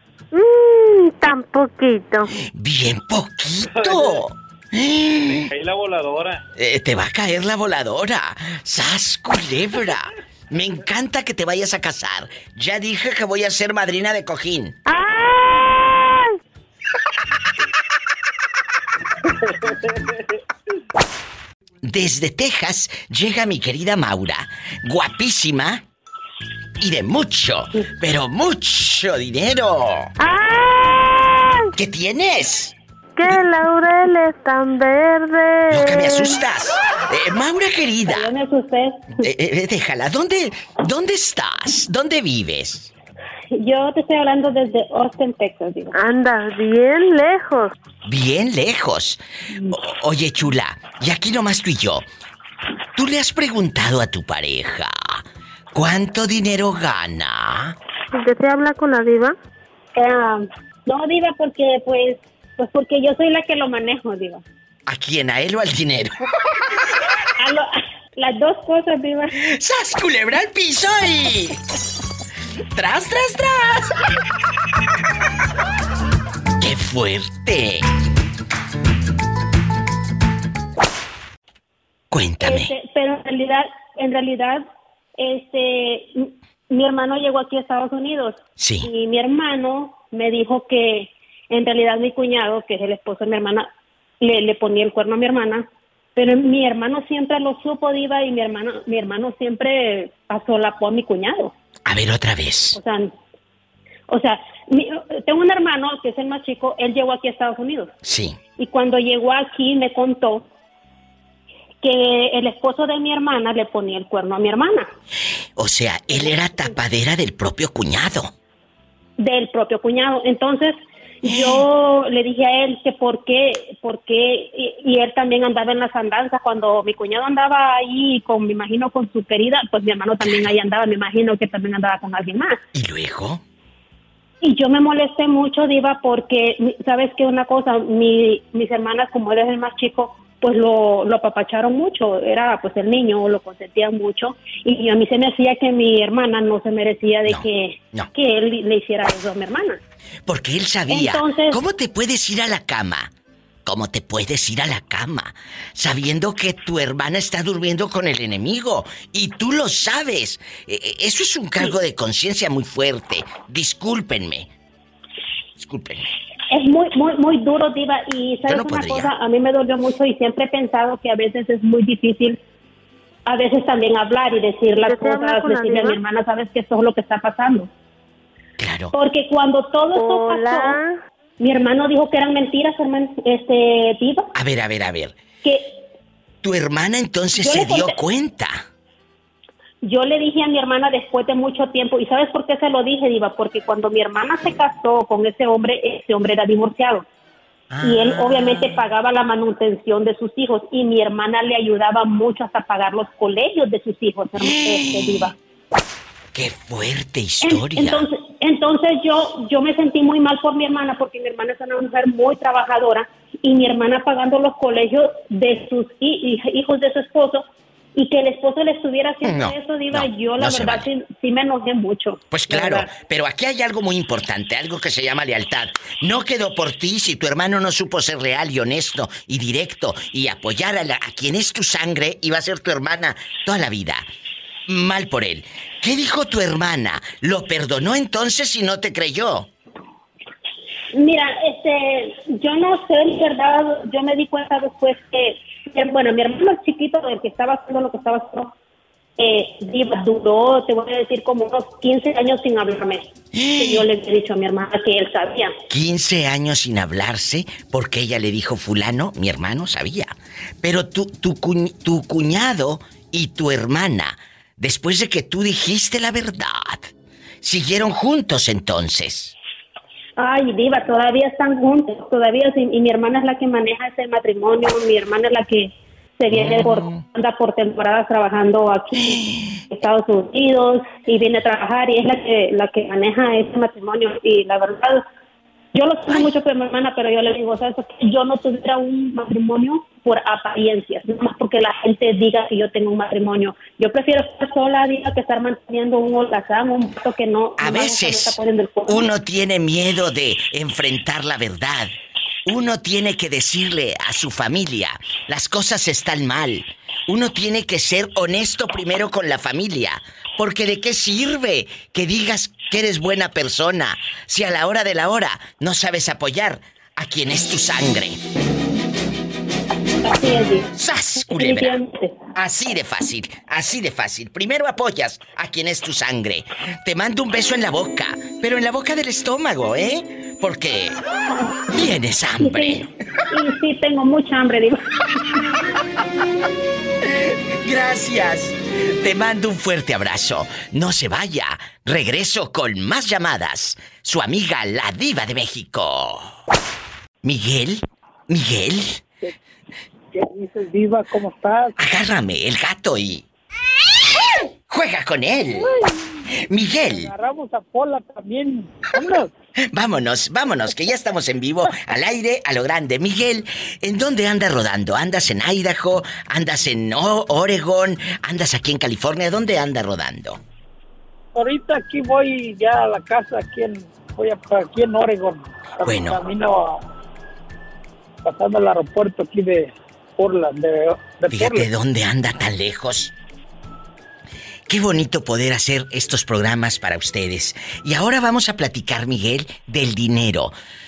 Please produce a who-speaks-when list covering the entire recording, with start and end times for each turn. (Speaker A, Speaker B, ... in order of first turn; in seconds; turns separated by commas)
Speaker A: 0.3-2.3, Speaker B: 2.5-5.5, Speaker C: 3.7-4.2, Speaker C: 5.2-6.4, Speaker B: 6.5-14.8, Speaker A: 14.9-16.3, Speaker C: 19.7-20.0, Speaker B: 21.8-25.8, Speaker B: 26.8-30.1, Speaker A: 30.2-31.7, Speaker B: 31.7-32.7, Speaker A: 33.1-36.4, Speaker B: 35.7-38.3, Speaker D: 38.1-39.1, Speaker B: 39.2-42.9, Speaker D: 43.5-45.9, Speaker A: 45.9-47.7, Speaker B: 48.0-52.1, Speaker B: 53.0-57.7, Speaker A: 58.1-59.4, Speaker D: 59.9-64.4, Speaker B: 64.9-66.1, Speaker D: 67.4-69.3, Speaker B: 69.4-71.6, Speaker B: 72.7-74.0, Speaker B: 76.6-77.8, Speaker B: 82.1-82.7, Speaker D: 82.4-84.6, Speaker D: 85.2-93.7, Speaker B: 88.6-88.9, Speaker D: 94.2-101.5, Speaker B: 101.8-102.8, Speaker D: 102.7-103.1, Speaker D: 104.1-107.9, Speaker B: 108.0-108.4, Speaker D: 108.6-110.5, Speaker D: 111.8-114.9, Speaker B: 115.5-118.3, Speaker D: 119.2-132.6, Speaker B: 121.2-121.6, Speaker B: 130.2-130.5, Speaker B: 132.7-133.4, Speaker D: 134.4-149.8, Speaker B: 147.2-148.1, Speaker B: 150.2-153.1, Speaker D: 150.9-151.6, Speaker B: 153.6-164.5, Speaker B: 165.6-166.1, Speaker D: 166.5-172.4, Speaker B: 168.4-169.1, Speaker D: 173.3-177.7, Speaker A: 174.8-176.0, Speaker B: 178.6-178.9, Speaker D: 178.9-180.8, Speaker A: 179.9-181.0, Speaker D: 181.4-184.3, Speaker B: 184.3-185.2, Speaker D: 185.4-185.7, Speaker B: 186.4-188.6, Speaker D: 187.3-187.9, Speaker D: 189.8-197.1, Speaker B: 197.7-198.9, Speaker D: 197.8-205.3, Speaker B: 204.4-205.3, Speaker B: 206.3-208.1, Speaker D: 207.4-222.9, Speaker B: 219.2-220.9, Speaker B: 222.3-234.1, Speaker B: 234.7-239.5, Speaker D: 240.9-248.5, Speaker D: 249.2-255.5, Speaker B: 253.3-253.9, Speaker B: 255.7-266.9, Speaker B: 267.4-269.3, Speaker D: 270.2-285.0, Speaker B: 276.3-277.0, Speaker B: 279.0-279.4, Speaker D: 285.7-299.1, Speaker B: 297.6-301.9, Speaker B: 302.4-318.2, Speaker D: 320.0-320.7, Speaker B: 320.7-321.8, Speaker D: 321.2-322.2, Speaker B: 322.3-331.0, Speaker B: 331.7-332.9, Speaker D: 333.3-334.9, Speaker B: 337.6-346.3, Speaker B: 347.2-349.0, Speaker E: 350.1-351.8, Speaker B: 351.8-353.2, Speaker B: 354.7-355.7, Speaker E: 355.6-359.3, Speaker B: 356.5-357.1, Speaker B: 359.7-370.4, Speaker E: 371.3-376.8, Speaker B: 375.8-376.2, Speaker E: 378.2-381.7, Speaker B: 381.3-383.1, Speaker B: 384.7-390.5